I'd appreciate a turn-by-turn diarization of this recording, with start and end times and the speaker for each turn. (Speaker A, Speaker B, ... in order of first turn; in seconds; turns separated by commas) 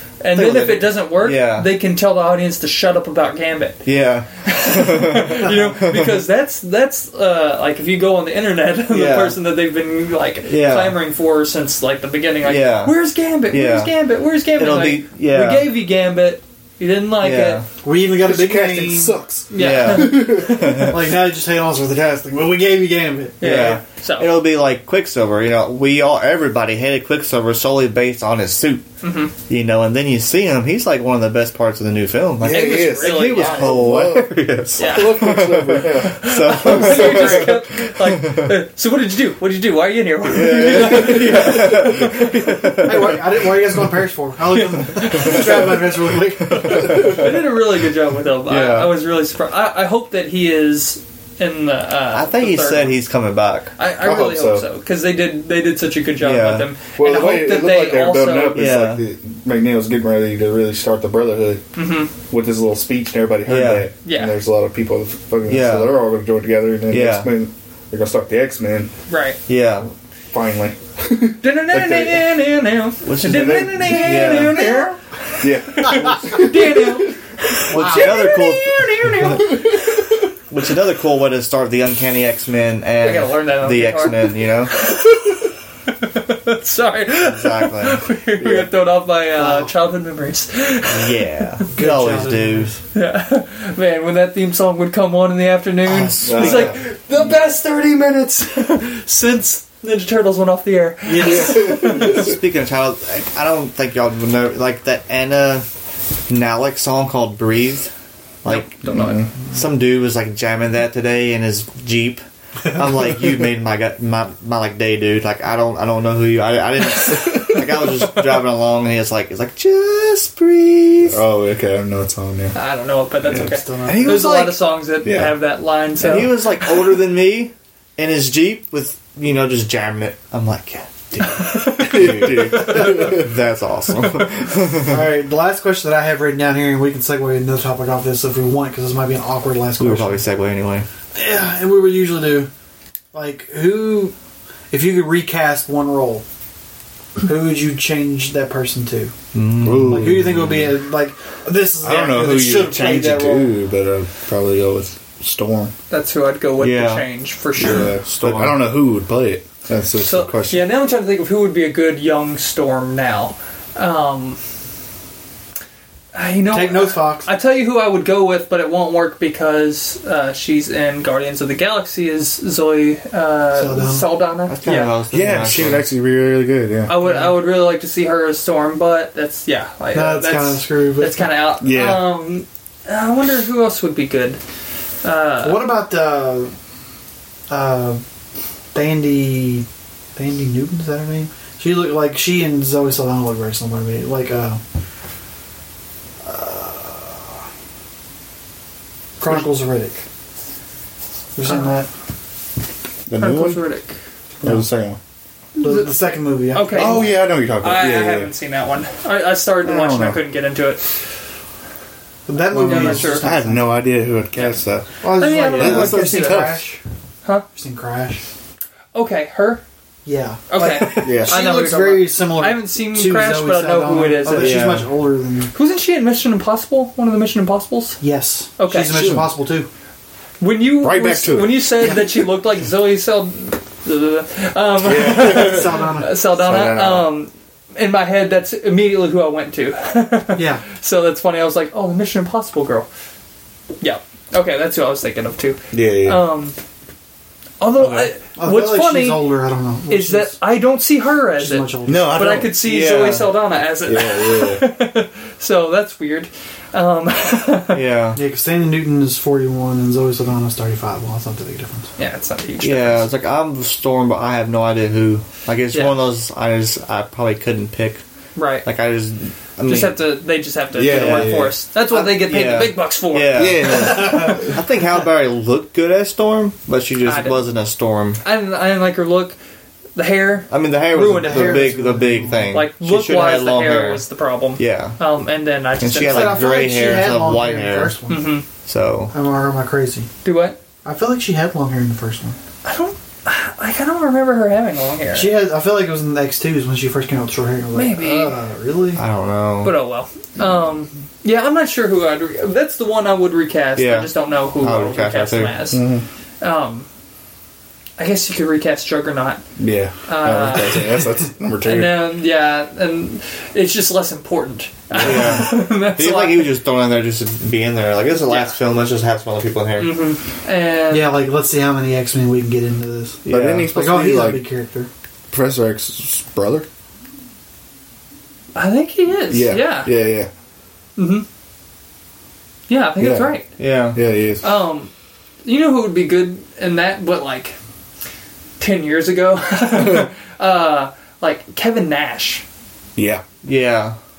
Speaker A: 0.2-3.8, Speaker B: 0.3-1.7, Speaker B: 3.8-6.2, Speaker A: 4.4-17.6, Speaker B: 8.9-9.4, Speaker B: 10.4-11.0, Speaker B: 12.4-15.7, Speaker B: 17.2-17.6, Speaker C: 17.8-19.2, Speaker D: 18.2-20.8, Speaker A: 19.5-20.9, Speaker B: 19.6-21.1, Speaker C: 20.6-23.5, Speaker A: 23.4-24.4, Speaker B: 23.4-28.9, Speaker A: 29.0-29.3, Speaker B: 29.5-38.6, Speaker D: 32.4-37.5, Speaker A: 32.4-33.9, Speaker A: 34.8-42.9, Speaker B: 40.3-43.2, Speaker D: 40.6-41.4, Speaker C: 42.8-47.3, Speaker A: 44.7-53.0, Speaker B: 48.5-48.9, Speaker B: 52.1-53.7, Speaker A: 53.8-58.7, Speaker D: 54.0-54.6, Speaker B: 56.2-56.7, Speaker D: 57.0-61.6, Speaker B: 58.5-59.0, Speaker A: 61.8-62.1, Speaker D: 62.3-68.9, Speaker B: 63.5-63.9, Speaker A: 64.0-64.4, Speaker B: 65.5-65.9, Speaker B: 66.9-67.3, Speaker A: 69.1-69.4, Speaker B: 69.5-69.9, Speaker D: 70.3-72.3, Speaker A: 71.4-79.8, Speaker B: 73.0-74.6, Speaker D: 73.2-74.9, Speaker D: 75.4-77.1, Speaker B: 77.7-79.7, Speaker C: 77.8-78.2, Speaker B: 80.5-84.7, Speaker A: 83.0-91.5, Speaker B: 87.2-88.0, Speaker C: 89.4-89.7, Speaker B: 90.9-92.8, Speaker C: 91.7-92.8, Speaker A: 92.9-102.3, Speaker B: 95.8-96.8, Speaker D: 96.2-96.8, Speaker C: 101.0-101.8, Speaker D: 101.2-102.3, Speaker B: 101.8-105.7, Speaker B: 106.3-107.9, Speaker B: 108.4-109.0, Speaker A: 108.5-109.3, Speaker D: 108.9-109.3, Speaker B: 109.5-112.2, Speaker B: 112.7-121.2, Speaker D: 121.0-122.6, Speaker A: 122.5-126.9, Speaker D: 123.2-123.5, Speaker C: 123.3-124.2, Speaker B: 123.8-124.6, Speaker D: 125.0-125.4, Speaker B: 126.0-135.0, Speaker A: 131.2-133.2, Speaker D: 131.8-133.3, Speaker A: 134.0-134.5, Speaker C: 134.8-140.2, Speaker B: 139.8-140.9, Speaker C: 141.1-142.5, Speaker C: 143.1-144.1, Speaker C: 144.7-146.2, Speaker C: 147.2-149.1, Speaker B: 149.3-150.3, Speaker D: 149.6-150.7, Speaker C: 149.8-153.5, Speaker D: 151.8-155.7, Speaker A: 155.9-157.9, Speaker B: 156.6-158.6, Speaker D: 157.6-160.7, Speaker A: 160.0-164.4, Speaker A: 166.1-174.9, Speaker C: 166.5-167.3, Speaker C: 173.5-174.1, Speaker B: 174.5-175.8, Speaker D: 175.1-177.0, Speaker A: 176.8-184.4, Speaker C: 179.9-181.4, Speaker D: 181.6-182.1, Speaker A: 185.0-185.6, Speaker C: 185.4-186.5, Speaker C: 187.5-188.0, Speaker C: 188.7-194.6, Speaker C: 196.2-197.3, Speaker C: 199.2-200.0, Speaker C: 201.3-201.9, Speaker D: 203.1-203.7, Speaker A: 203.2-203.9, Speaker D: 204.4-205.0, Speaker A: 205.6-205.9, Speaker C: 205.6-207.2, Speaker A: 206.5-210.8, Speaker D: 206.7-208.3, Speaker D: 209.6-210.2, Speaker C: 212.3-213.6, Speaker A: 212.5-213.3, Speaker D: 212.5-216.6, Speaker A: 214.3-214.6, Speaker C: 215.0-216.8, Speaker A: 215.1-216.4, Speaker C: 217.5-218.2, Speaker A: 218.9-219.6, Speaker C: 220.0-225.5, Speaker A: 220.5-224.6, Speaker D: 221.0-221.4, Speaker B: 224.3-224.9, Speaker A: 225.5-228.0, Speaker C: 228.0-229.7, Speaker A: 228.6-229.2, Speaker D: 228.9-229.3, Speaker A: 230.4-242.9, Speaker D: 230.8-231.9, Speaker C: 231.8-232.2, Speaker D: 234.8-235.8, Speaker C: 235.2-236.2, Speaker D: 236.3-237.1, Speaker C: 240.3-240.6, Speaker A: 243.8-246.6, Speaker D: 245.7-246.3, Speaker A: 247.6-249.2, Speaker C: 248.3-250.4, Speaker A: 249.9-257.8, Speaker C: 251.4-252.2, Speaker D: 251.8-252.6, Speaker B: 252.6-253.3, Speaker D: 253.8-254.6, Speaker B: 257.7-258.2, Speaker C: 258.1-261.9, Speaker A: 262.0-263.1, Speaker B: 262.6-268.0, Speaker A: 265.7-266.0, Speaker A: 268.3-268.6, Speaker B: 268.6-270.0, Speaker A: 269.6-274.4, Speaker D: 270.7-271.6, Speaker B: 270.9-271.3, Speaker B: 271.9-278.2, Speaker D: 273.3-274.6, Speaker A: 277.0-277.4, Speaker A: 278.2-279.4, Speaker A: 279.9-281.8, Speaker B: 280.5-284.0, Speaker C: 281.0-282.5, Speaker A: 282.5-286.4, Speaker B: 284.6-285.0, Speaker B: 285.8-288.0, Speaker C: 286.0-288.3, Speaker A: 288.1-288.4, Speaker B: 288.6-289.1, Speaker C: 289.1-290.1, Speaker A: 290.2-290.6, Speaker C: 290.8-292.4, Speaker A: 292.6-295.3, Speaker C: 295.1-299.0, Speaker A: 297.7-298.3, Speaker B: 298.9-299.7, Speaker A: 299.6-305.8, Speaker B: 303.8-305.6, Speaker D: 305.7-306.0, Speaker A: 306.4-306.9, Speaker A: 308.0-309.4, Speaker D: 309.6-312.1, Speaker A: 310.0-311.1, Speaker A: 311.6-316.5, Speaker B: 314.9-320.0, Speaker A: 318.3-318.5, Speaker A: 319.8-321.2, Speaker C: 320.9-324.9, Speaker B: 323.3-323.7, Speaker D: 323.3-324.4, Speaker D: 325.3-326.7, Speaker A: 328.5-329.9, Speaker D: 329.3-330.3, Speaker A: 331.0-331.2, Speaker A: 332.7-333.5, Speaker D: 333.0-333.4, Speaker B: 333.6-334.0, Speaker D: 333.9-334.5, Speaker A: 334.4-334.9, Speaker A: 335.4-337.6, Speaker A: 338.6-342.4, Speaker D: 342.9-343.2, Speaker B: 343.4-344.0